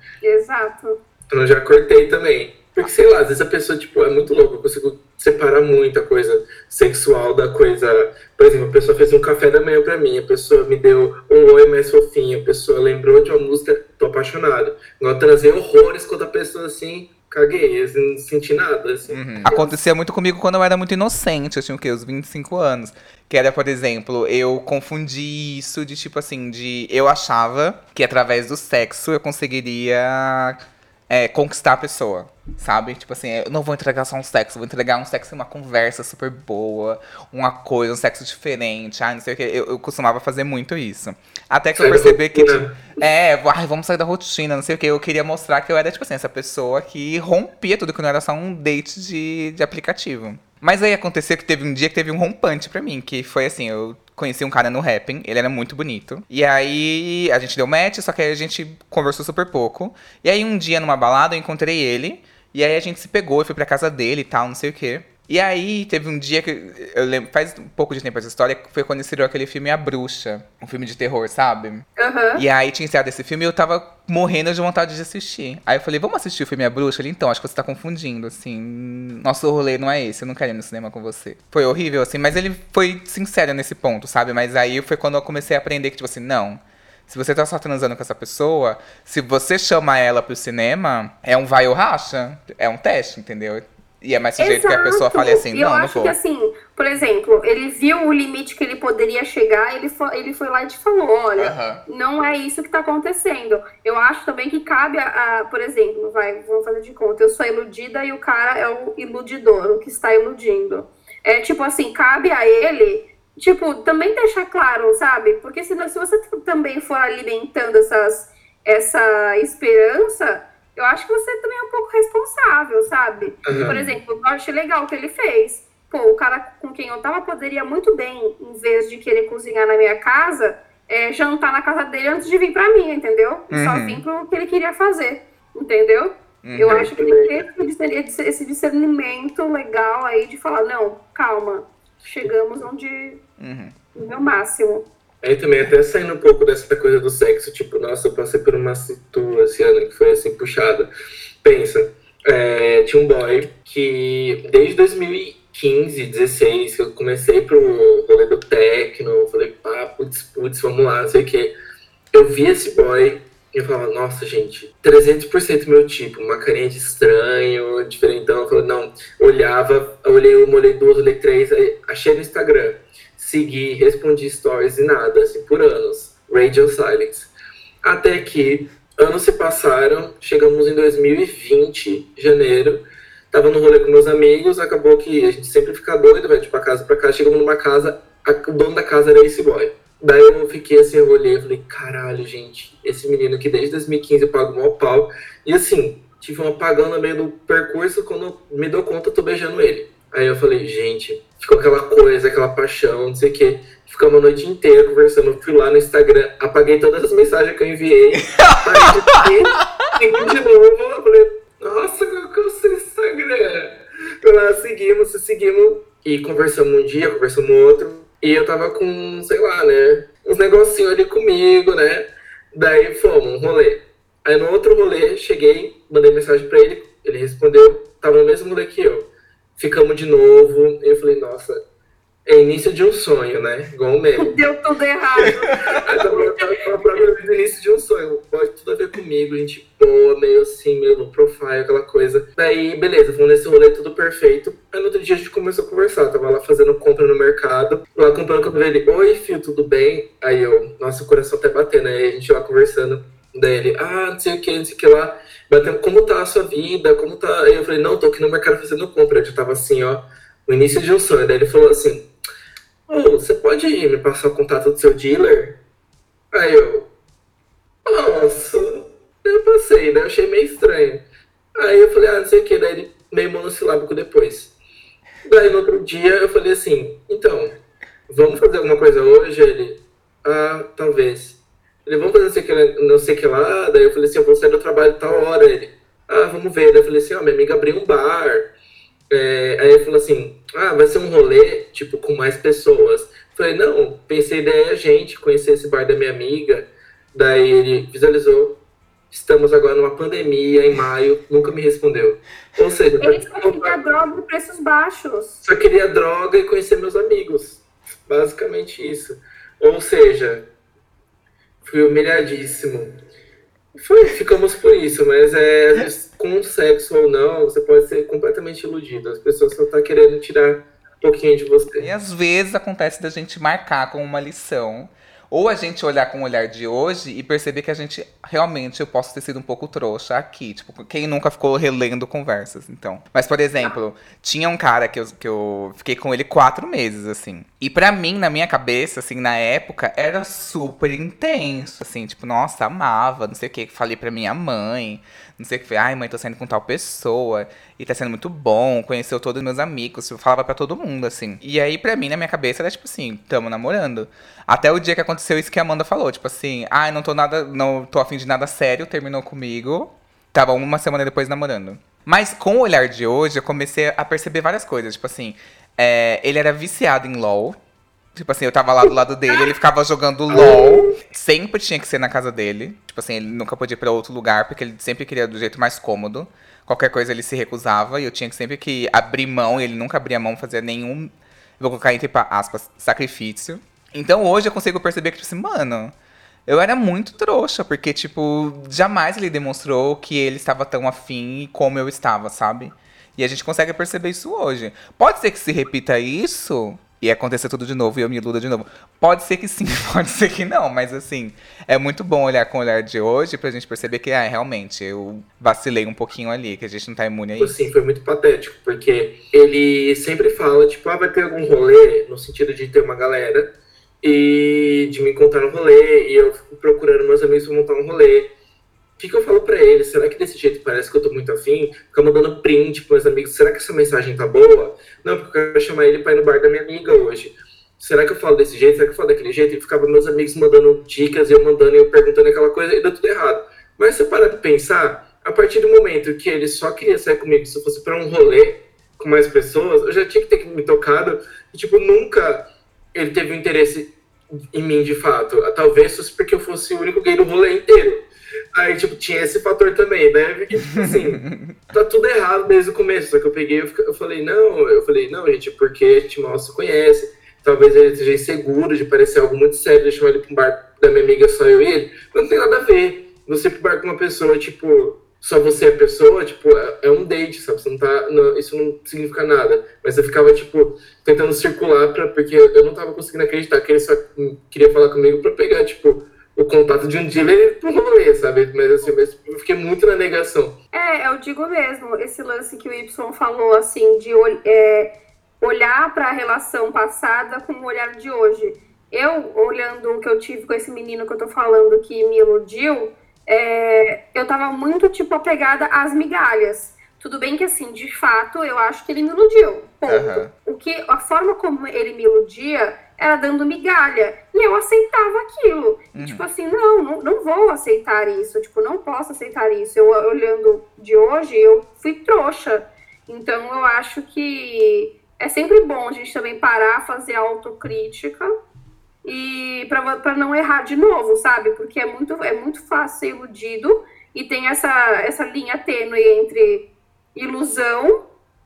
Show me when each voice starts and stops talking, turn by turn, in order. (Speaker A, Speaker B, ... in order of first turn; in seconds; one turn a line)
Speaker A: 0.2-1.0
Speaker B: 1.3-19.6
Speaker C: 19.1-96.1
Speaker A: 19.5-19.7
Speaker B: 41.8-42.9
Speaker A: 72.0-72.4
Speaker A: 94.4-143.2
Speaker C: 101.4-101.8
Speaker B: 123.5-123.8
Speaker C: 123.6-124.0
Speaker C: 133.5-134.0
Speaker C: 136.4-136.8
Speaker B: 136.6-137.4
Speaker C: 143.4-143.7
Speaker A: 143.9-144.8
Speaker B: 145.2-150.9
Speaker B: 151.4-161.5
Speaker B: 162.1-177.3
Speaker B: 177.8-231.6
Speaker C: 208.3-209.2
Speaker B: 232.2-234.4
Speaker A: 234.2-235.4
Speaker B: 235.2-262.1
Speaker A: 236.1-236.5
Speaker B: 262.9-265.6
Speaker B: 266.3-266.9
Speaker B: 267.8-271.0
Speaker B: 271.6-274.5
Speaker B: 275.2-277.6
Speaker B: 278.1-288.5
Speaker B: 289.1-298.6
Speaker B: 299.1-303.8
Speaker A: 303.0-305.4
Speaker B: 305.4-310.5
Speaker B: 311.6-312.9
Speaker B: 313.8-321.9
Speaker C: 321.8-367.6
Speaker C: 368.1-385.9
Speaker B: 370.3-370.7
Speaker A: 370.3-370.9
Speaker C: 386.5-407.7
Speaker B: 407.4-418.3
Speaker B: 419.0-443.9
Speaker B: 444.5-480.6
Speaker C: 450.7-451.5
Speaker A: 480.7-518.3
Speaker C: 499.9-500.3
Speaker C: 505.9-506.2
Speaker A: 519.0-528.1